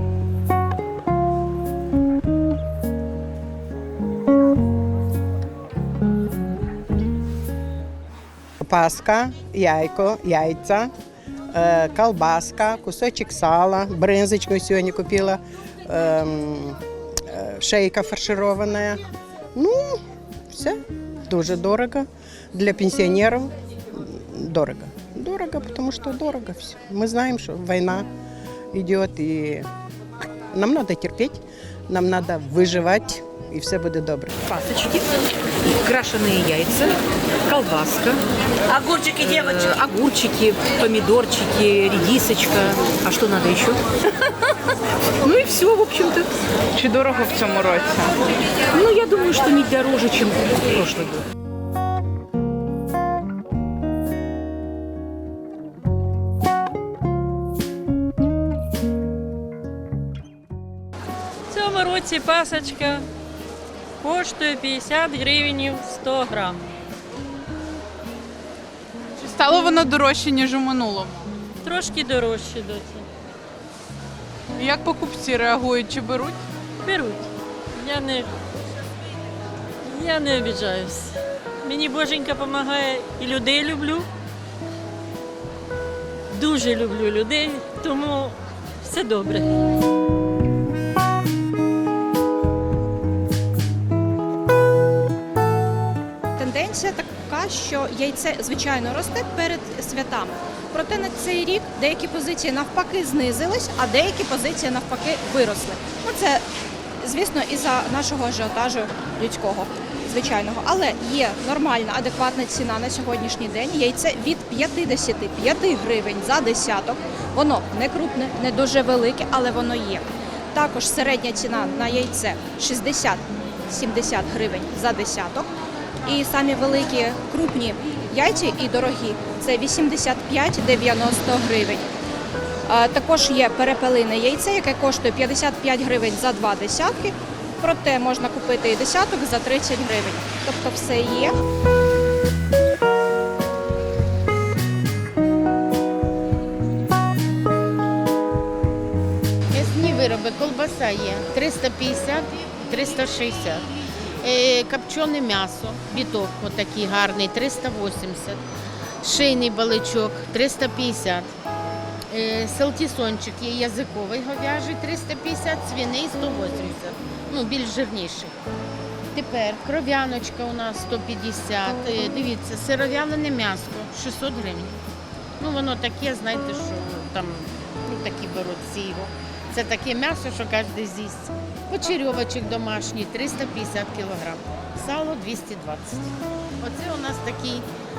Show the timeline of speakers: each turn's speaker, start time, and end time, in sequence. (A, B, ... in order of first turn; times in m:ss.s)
0:08.6-0:10.9 A
0:11.5-0:19.0 A
0:19.6-0:28.1 A
0:28.7-0:29.7 A
0:30.5-0:34.4 A
0:34.5-0:35.1 B
0:35.6-0:43.8 B
0:45.2-0:46.4 B
0:46.8-0:48.0 C
0:47.6-0:47.9 B
0:48.7-0:51.3 B
1:01.5-1:03.0 D
1:04.0-1:06.6 D
1:09.2-1:11.3 C
1:11.6-1:13.0 D
1:14.6-1:16.4 C
1:16.8-1:18.3 D
1:19.8-1:24.1 D
1:26.3-1:29.6 D
1:36.4-1:46.4 E
1:47.0-2:05.5 E
2:06.0-2:11.8 E
2:12.7-2:21.4 E
2:29.5-2:33.7 F
2:34.2-2:38.4 F
2:39.0-2:41.3 F
2:42.1-2:48.4 F
2:49.1-2:54.8 F
2:55.4-3:07.7 F